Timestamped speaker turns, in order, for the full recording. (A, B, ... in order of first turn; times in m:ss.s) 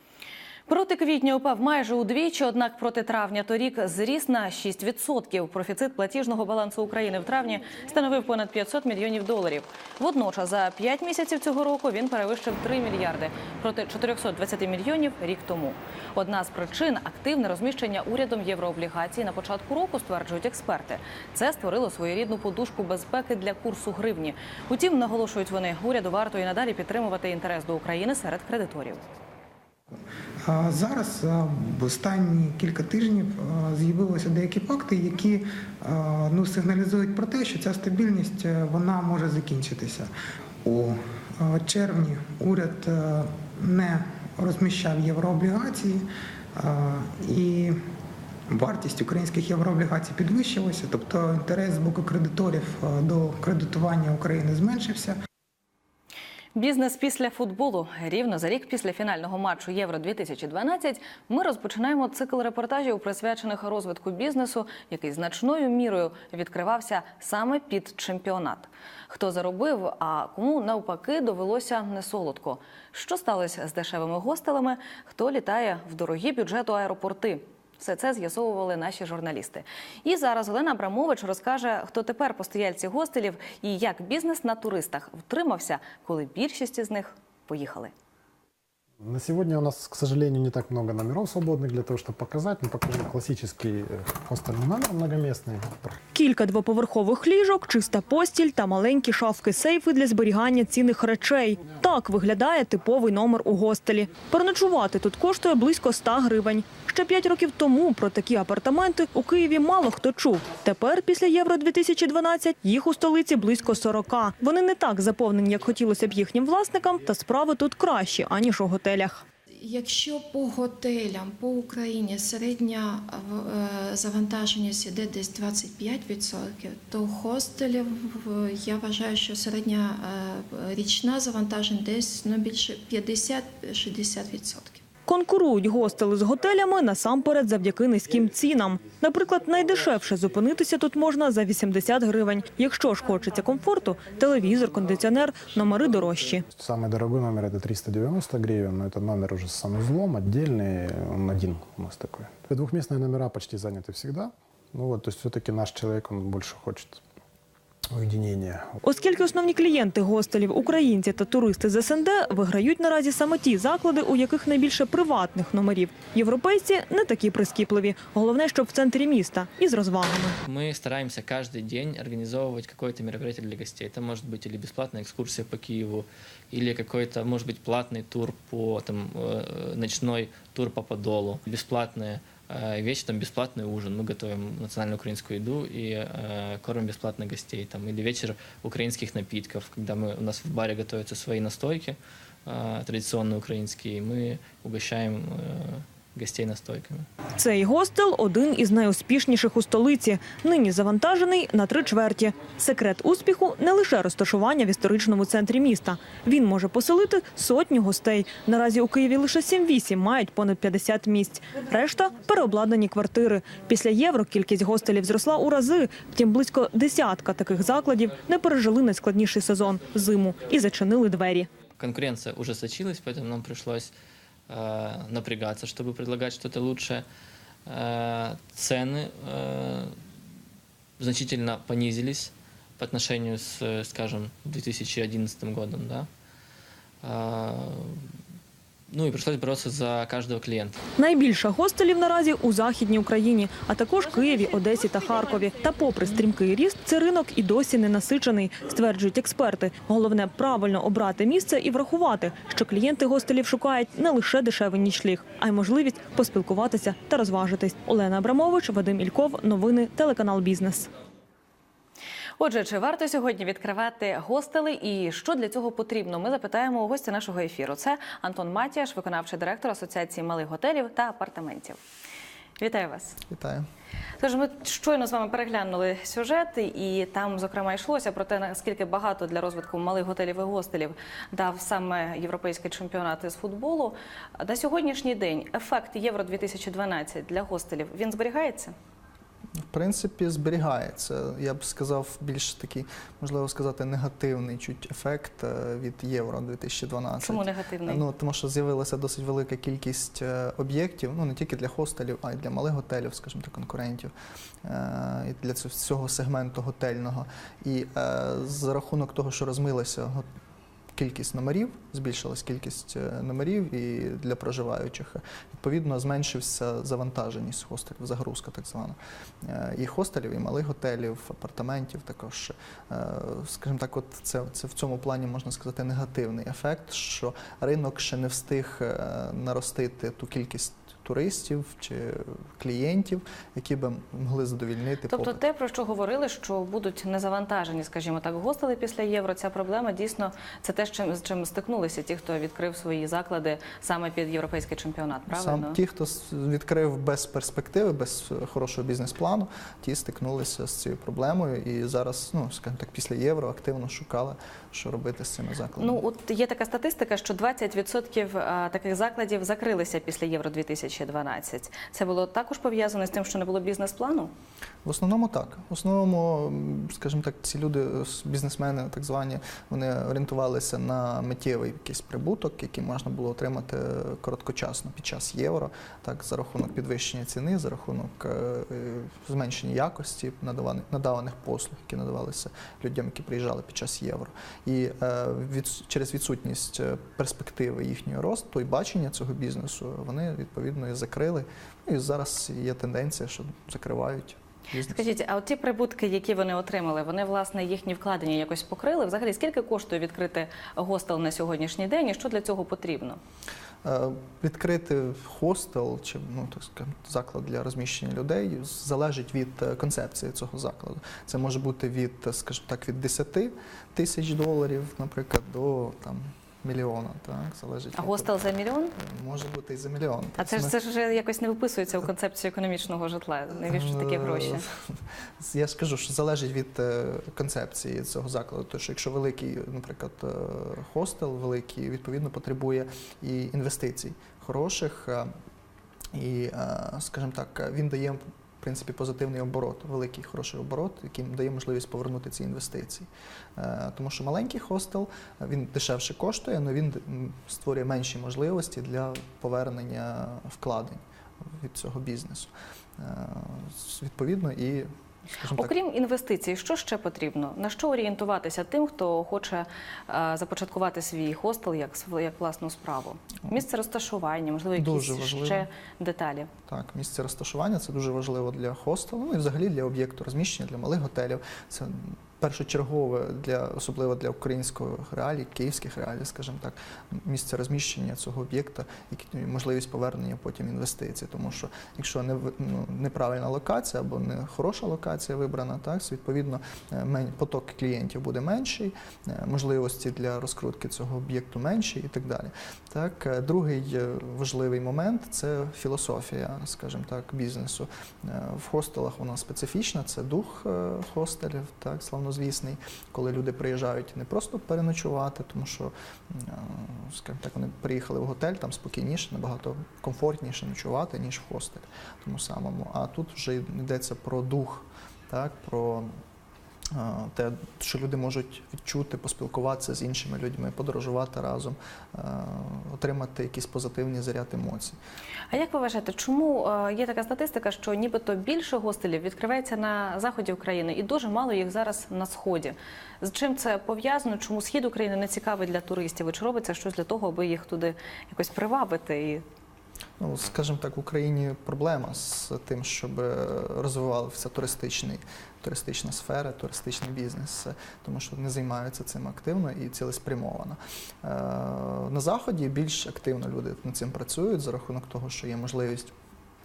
0:00.7-0:29.0 A
0:29.9-0:40.1 B
0:40.6-0:47.8 B
0:48.5-0:55.2 B
0:56.6-1:27.9 A
1:29.0-1:36.0 C
1:36.2-1:59.2 D
1:59.6-2:14.8 E
2:15.1-2:26.4 D
2:26.6-2:37.0 C
2:37.9-2:38.8 C
2:38.8-2:50.4 D
2:50.5-3:17.1 F
3:17.4-3:41.5 D
3:41.8-3:43.9 F
3:44.5-3:47.1 F
3:47.7-3:50.0 F
3:51.0-3:56.1 F
3:57.0-3:58.1 F
3:58.9-4:00.8 F
4:01.0-4:20.9 D
4:22.4-4:31.8 A
4:32.6-4:33.2 A
4:33.3-4:33.7 G
4:34.2-4:48.7 A
4:49.7-5:04.1 G
4:57.2-4:58.0 A
5:04.6-5:10.2 G
5:11.0-5:35.4 G
5:35.1-5:45.8 A
5:45.3-5:56.0 G
5:55.8-6:04.3 A
6:04.8-6:35.0 G
6:34.9-6:43.2 A
6:43.8-6:58.4 G
6:58.0-6:59.0 A
6:59.0-7:00.8 G
7:00.4-7:04.6 A
7:03.7-7:15.3 G
7:16.2-7:35.7 G
7:35.5-7:46.5 A
7:44.8-7:45.7 G
7:46.7-8:36.1 G
8:36.9-8:45.0 G
8:45.5-8:59.4 A
9:00.2-9:16.1 G